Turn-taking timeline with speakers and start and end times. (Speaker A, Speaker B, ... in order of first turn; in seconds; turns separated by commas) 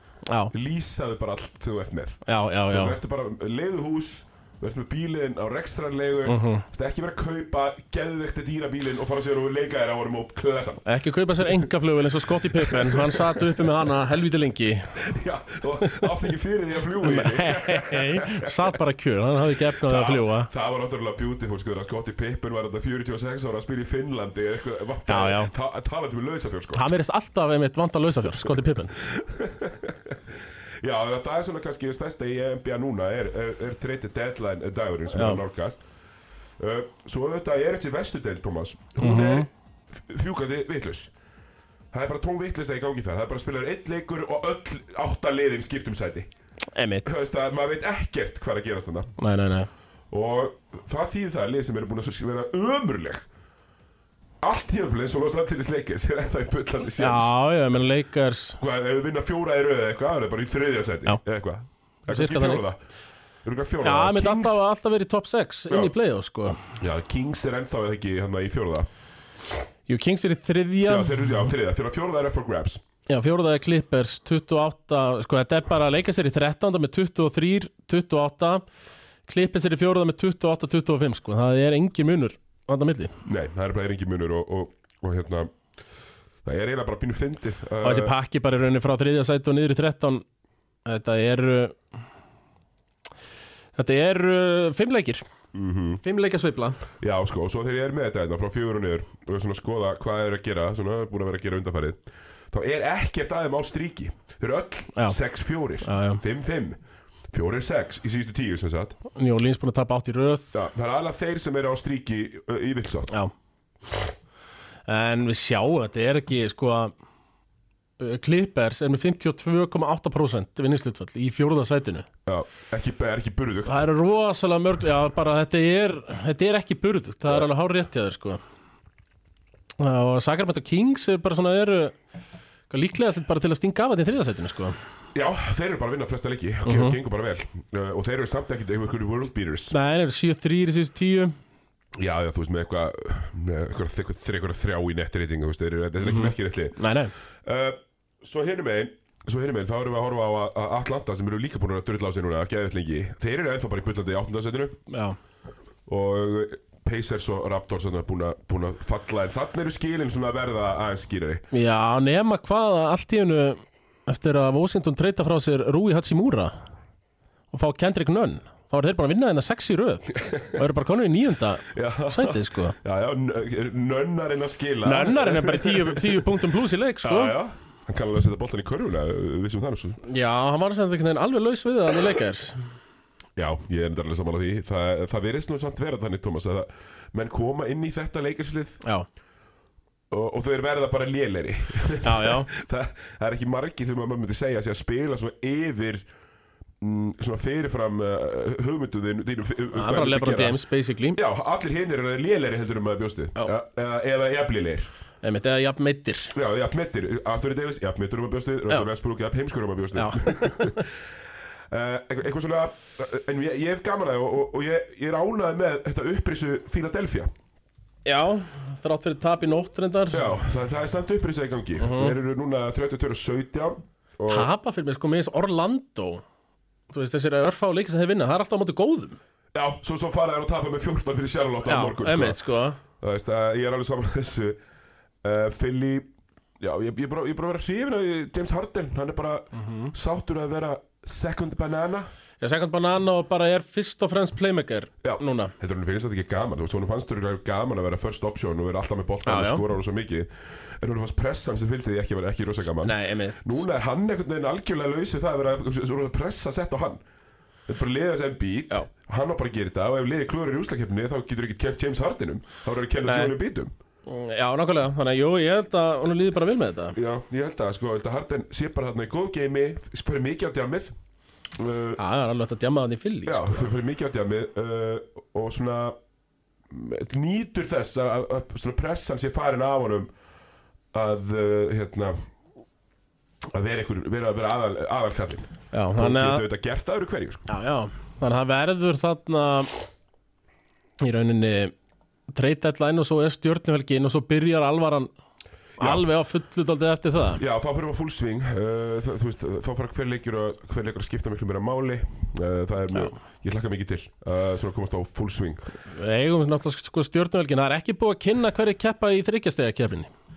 Speaker A: 0.3-0.5, Speaker B: 0.5-10.8, Speaker A: 2.2-3.0, Speaker A: 6.2-6.6, Speaker A: 10.8-15.0, Speaker B: 12.4-13.7, Speaker B: 15.0-18.8, Speaker A: 15.8-16.1, Speaker A: 17.0-20.5, Speaker B: 19.8-26.9, Speaker A: 25.1-25.5, Speaker A: 26.7-28.9, Speaker B: 28.5-35.8, Speaker A: 35.1-35.4, Speaker B: 36.6-41.1, Speaker A: 39.0-39.5, Speaker B: 41.9-46.3, Speaker A: 46.7-47.2, Speaker B: 47.0-49.1, Speaker A: 49.2-49.7, Speaker B: 50.1-53.2, Speaker B: 54.4-57.3, Speaker A: 57.0-58.6, Speaker B: 58.6-62.8, Speaker A: 62.1-62.6, Speaker B: 63.4-64.6, Speaker A: 63.8-66.6, Speaker B: 66.8-68.9, Speaker A: 69.9-71.3, Speaker B: 70.9-72.8, Speaker A: 73.1-78.6, Speaker A: 79.3-83.1, Speaker B: 83.2-85.5, Speaker B: 86.4-88.1, Speaker A: 87.8-90.2, Speaker A: 90.8-91.8, Speaker A: 93.8-95.2, Speaker B: 95.5-96.0, Speaker A: 96.0-96.8, Speaker B: 97.0-106.8, Speaker A: 105.8-106.2, Speaker B: 107.3-109.0, Speaker A: 109.1-110.6, Speaker B: 110.5-113.1, Speaker A: 114.9-116.9, Speaker A: 118.0-122.1, Speaker B: 122.2-123.8, Speaker A: 123.7-128.4, Speaker A: 129.8-131.9, Speaker A: 132.7-134.7, Speaker B: 135.1-139.7, Speaker A: 136.6-137.0, Speaker A: 139.7-141.3, Speaker B: 141.9-146.8, Speaker A: 146.0-147.1, Speaker B: 147.4-154.8, Speaker A: 154.9-155.2, Speaker B: 155.9-161.4, Speaker A: 161.5-166.5, Speaker A: 167.5-172.8, Speaker B: 170.2-170.6, Speaker B: 171.7-176.3, Speaker A: 174.8-177.4, Speaker B: 177.0-180.0, Speaker A: 180.0-182.6, Speaker B: 183.3-188.8, Speaker B: 190.1-196.0, Speaker A: 192.0-192.5, Speaker B: 196.8-200.6, Speaker A: 199.7-201.2, Speaker B: 201.1-204.9, Speaker A: 205.2-206.3, Speaker B: 206.3-210.9, Speaker A: 209.9-210.9, Speaker B: 211.7-217.3, Speaker A: 218.0-220.3, Speaker B: 220.1-224.5, Speaker A: 221.8-222.2, Speaker A: 224.3-226.2, Speaker A: 226.9-229.2, Speaker B: 229.5-232.4, Speaker A: 231.6-232.8, Speaker B: 233.0-234.6, Speaker B: 235.2-236.1, Speaker B: 236.6-242.1, Speaker A: 239.6-239.9, Speaker A: 242.4-245.5, Speaker B: 245.0-257.0, Speaker A: 249.2-249.6, Speaker A: 252.8-253.6, Speaker B: 257.7-263.7, Speaker A: 263.1-263.3, Speaker A: 264.1-267.0, Speaker B: 266.9-270.9, Speaker B: 271.6-272.0, Speaker A: 272.0-273.7, Speaker B: 273.2-276.0, Speaker B: 276.7-280.1, Speaker B: 280.9-282.2, Speaker B: 283.4-287.5, Speaker A: 285.7-286.4, Speaker A: 287.5-289.7, Speaker A: 291.0-291.7, Speaker A: 292.3-295.1, Speaker B: 295.8-296.1, Speaker A: 295.8-297.4, Speaker B: 297.4-305.6, Speaker A: 305.9-310.1